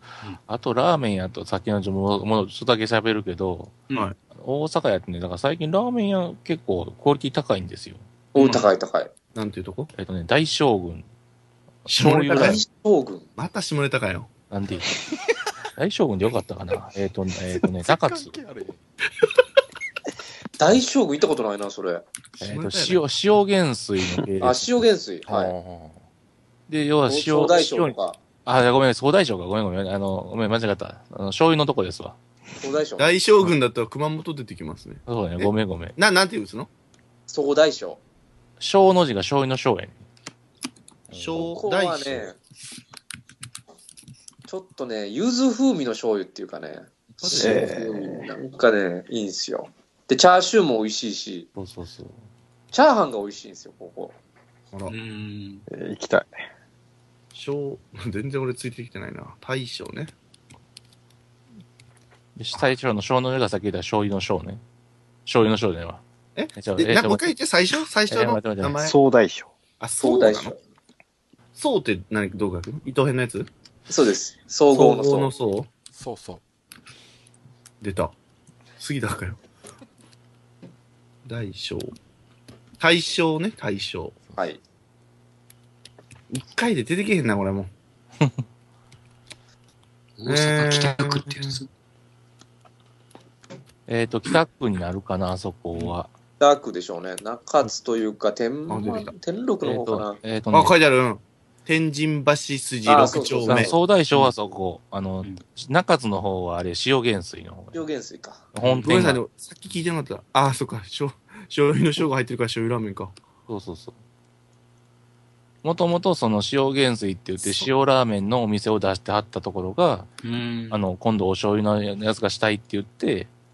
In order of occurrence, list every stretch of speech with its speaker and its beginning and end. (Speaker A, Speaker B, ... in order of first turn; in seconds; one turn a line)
Speaker A: 0.5-8.0
Speaker B: 8.3-9.1
Speaker C: 8.4-8.7
Speaker D: 9.3-9.9
Speaker A: 9.9-11.1
Speaker A: 11.8-12.6
Speaker D: 11.9-12.6
Speaker B: 12.1-13.3
Speaker D: 13.4-14.3
Speaker A: 14.5-14.9
Speaker A: 15.8-18.3
Speaker E: 17.8-18.8
Speaker B: 20.6-22.0
Speaker D: 22.4-23.0
Speaker A: 22.4-24.9
Speaker B: 24.4-25.5
Speaker E: 25.2-26.0
Speaker A: 26.7-32.2
Speaker B: 27.1-28.2
Speaker B: 32.6-33.1
Speaker D: 33.0-36.7
Speaker A: 35.1-36.0
Speaker B: 37.3-38.0
Speaker A: 38.6-40.0
Speaker E: 41.1-41.6
Speaker D: 41.1-42.3
Speaker B: 41.5-42.4
Speaker B: 44.5-51.5
Speaker D: 47.2-47.7
Speaker F: 47.3-48.3
Speaker A: 51.5-52.3
Speaker B: 52.7-54.1
Speaker C: 54.9-55.6
Speaker F: 55.7-56.4
Speaker D: 57.3-60.1
Speaker A: 62.4-64.6
Speaker A: 65.2-66.0
Speaker D: 66.3-69.0
Speaker A: 66.5-67.3
Speaker A: 68.1-68.8
Speaker F: 68.8-69.5
Speaker D: 69.8-70.5
Speaker B: 70.0-70.6
Speaker D: 71.5-73.5
Speaker B: 73.9-75.3
Speaker D: 74.7-75.7
Speaker E: 75.9-76.4
Speaker D: 77.8-78.1
Speaker D: 78.8-79.4
Speaker D: 81.2-81.9
Speaker D: 82.8-84.2
Speaker D: 86.3-87.7
Speaker C: 90.2-91.7
Speaker D: 90.3-91.6
Speaker A: 93.9-96.1
Speaker B: 96.4-100.2
Speaker D: 98.7-99.1
Speaker A: 99.6-100.8
Speaker D: 100.5-103.7
Speaker B: 102.8-103.8
Speaker A: 103.4-107.9
Speaker B: 107.7-108.5
Speaker A: 108.5-109.2
Speaker D: 108.6-113.1
Speaker A: 113.5-114.0
Speaker A: 115.6-120.1
Speaker D: 117.4-117.7
Speaker C: 120.2-120.8
Speaker A: 120.7-123.3